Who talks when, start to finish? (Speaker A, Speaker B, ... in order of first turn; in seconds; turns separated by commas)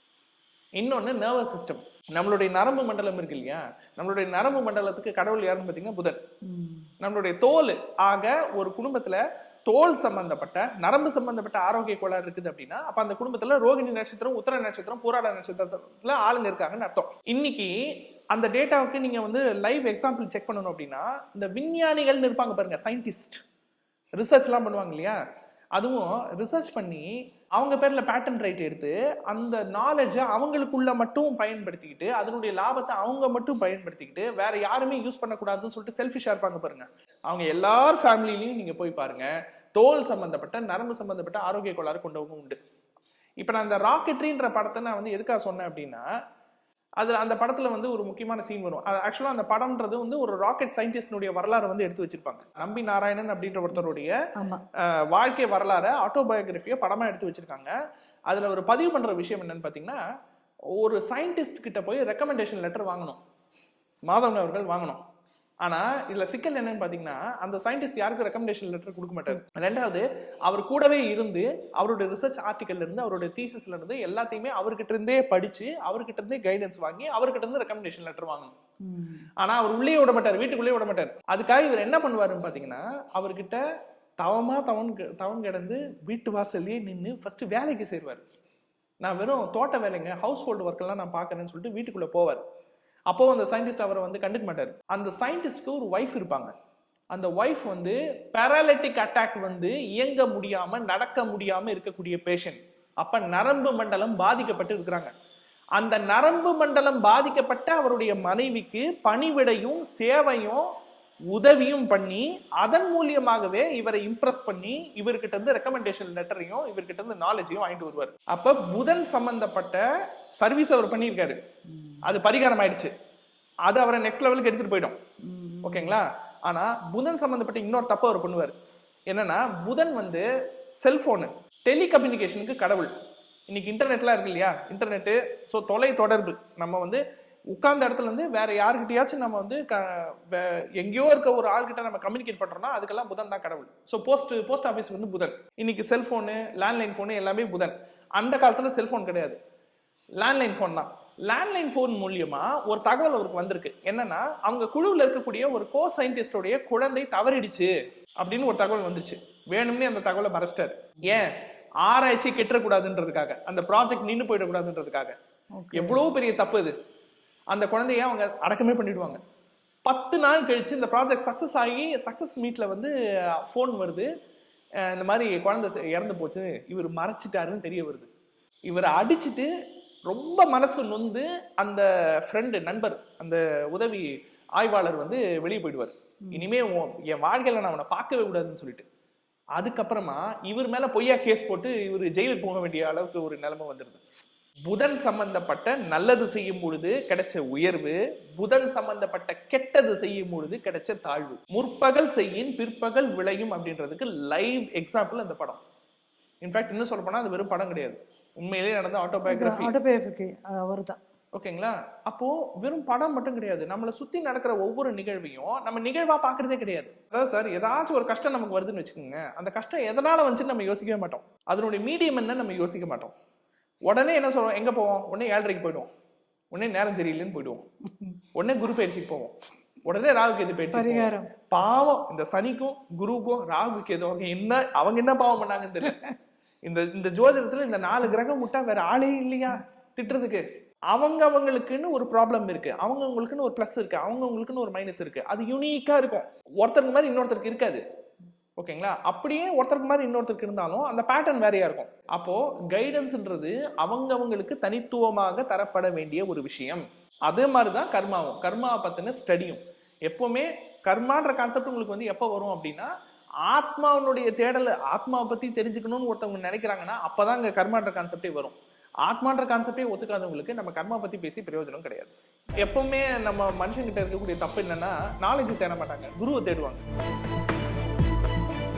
Speaker A: 0.8-6.2, Speaker B: 6.4-6.9, Speaker A: 7.0-23.4, Speaker A: 24.2-25.2, Speaker A: 25.8-42.6, Speaker A: 43.4-46.1, Speaker A: 47.0-54.1, Speaker B: 54.4-54.6, Speaker A: 54.8-57.7, Speaker A: 58.3-60.0, Speaker A: 60.8-63.2, Speaker A: 64.1-65.0, Speaker A: 65.6-78.5, Speaker B: 78.8-79.3, Speaker A: 79.4-83.6, Speaker A: 84.2-88.2, Speaker A: 89.0-92.4, Speaker A: 93.1-96.5, Speaker A: 97.1-105.1, Speaker A: 105.8-110.7, Speaker A: 111.3-119.8, Speaker A: 120.4-121.4, Speaker B: 121.7-122.2, Speaker A: 122.0-122.9, Speaker A: 123.7-125.0, Speaker B: 125.2-126.0, Speaker A: 125.6-128.6, Speaker A: 129.1-130.2, Speaker A: 130.8-132.9, Speaker A: 133.5-149.4, Speaker A: 150.2-165.2, Speaker B: 165.6-166.1, Speaker A: 165.7-166.7, Speaker A: 167.5-169.2, Speaker A: 169.8-174.1, Speaker A: 174.8-178.1, Speaker A: 178.7-179.5, Speaker A: 180.1-188.9, Speaker B: 186.2-186.5, Speaker A: 189.6-194.1, Speaker A: 194.7-205.6, Speaker A: 206.4-209.7, Speaker B: 209.3-211.0, Speaker A: 211.3-223.1, Speaker A: 223.9-225.9, Speaker A: 226.5-227.6, Speaker A: 228.3-229.3, Speaker A: 229.9-236.1, Speaker B: 230.7-231.3, Speaker A: 236.7-247.8, Speaker A: 248.6-262.9, Speaker A: 263.5-276.8